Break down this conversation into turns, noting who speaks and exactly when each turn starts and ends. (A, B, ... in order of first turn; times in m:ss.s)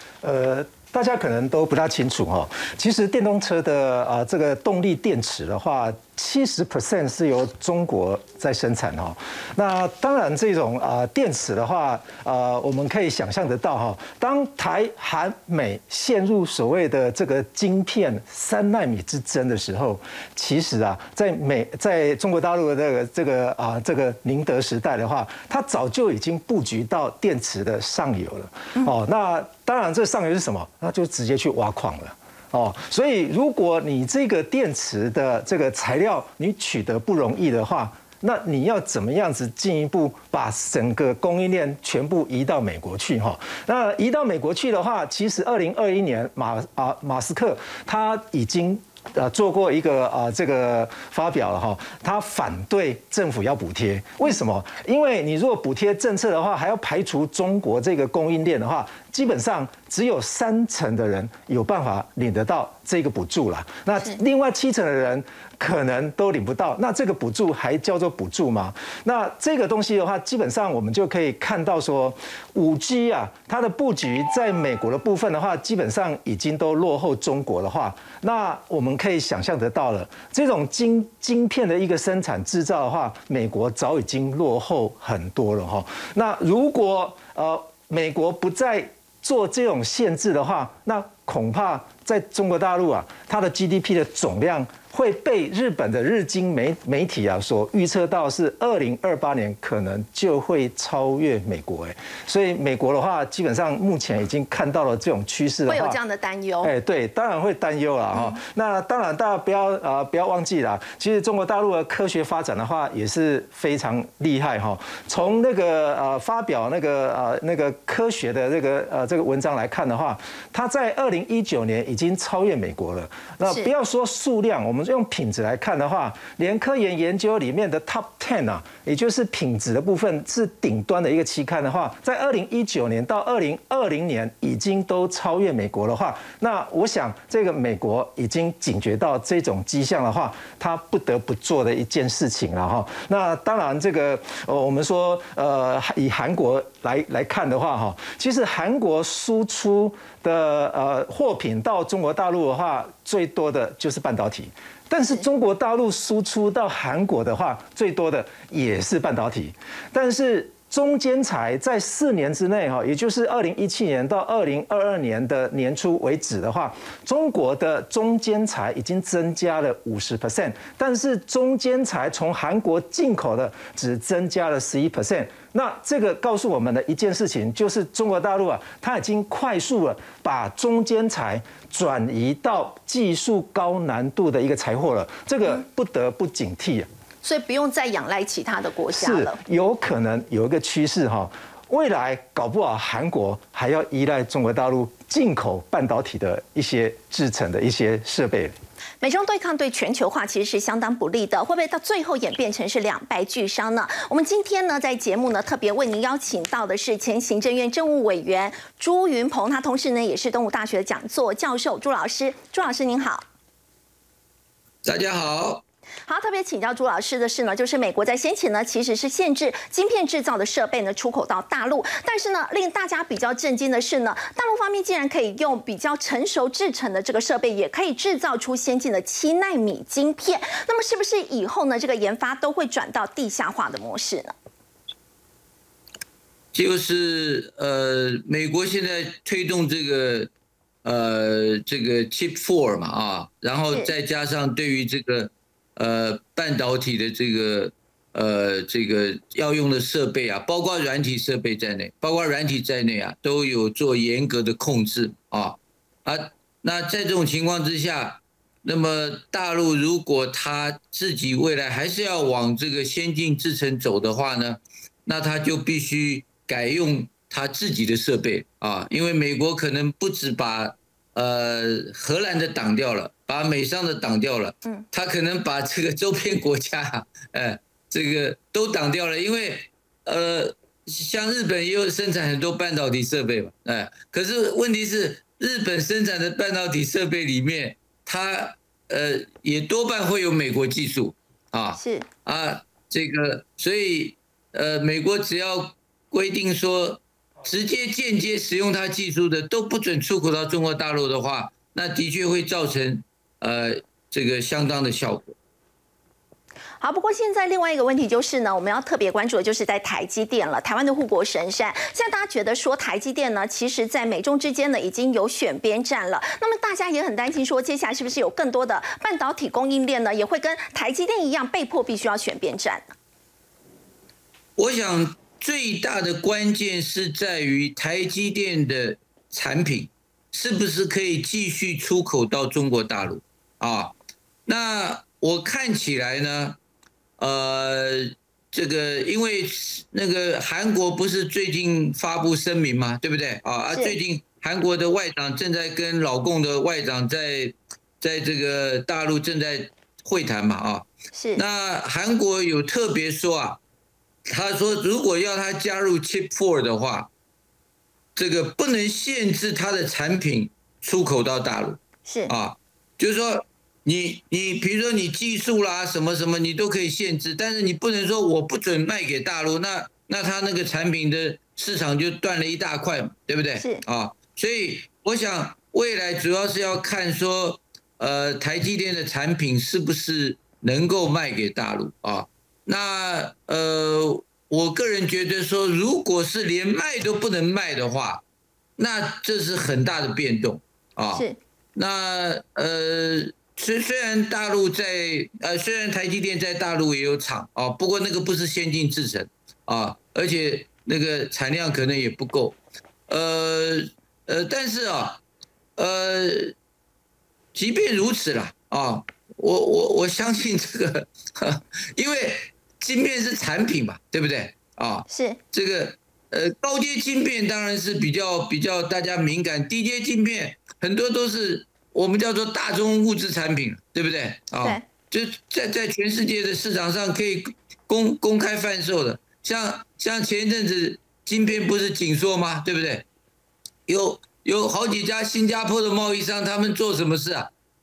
0:00.2-1:46.0 A
1:45.7-1:46.7 B
1:46.6-3:06.9 A
3:07.2-3:09.4 B
3:08.9-3:18.5 A
3:19.0-3:33.2 B
3:34.8-3:35.6 C
3:36.1-3:54.3 B
3:56.5-4:00.3 C
4:00.8-5:05.3 C
4:51.8-4:52.1 B
5:06.8-5:22.9 B
5:24.6-5:33.9 C
5:34.4-5:36.6 C
5:37.2-5:53.6 C
5:51.1-5:51.4 B
5:54.3-5:57.1 C
5:58.1-6:28.2 C
6:13.6-6:13.8 B
6:28.8-6:42.6 C
6:43.1-6:45.2 C
6:45.8-6:46.5 C
6:47.5-7:13.0 C
6:55.1-6:55.4 B
7:13.9-7:17.5 C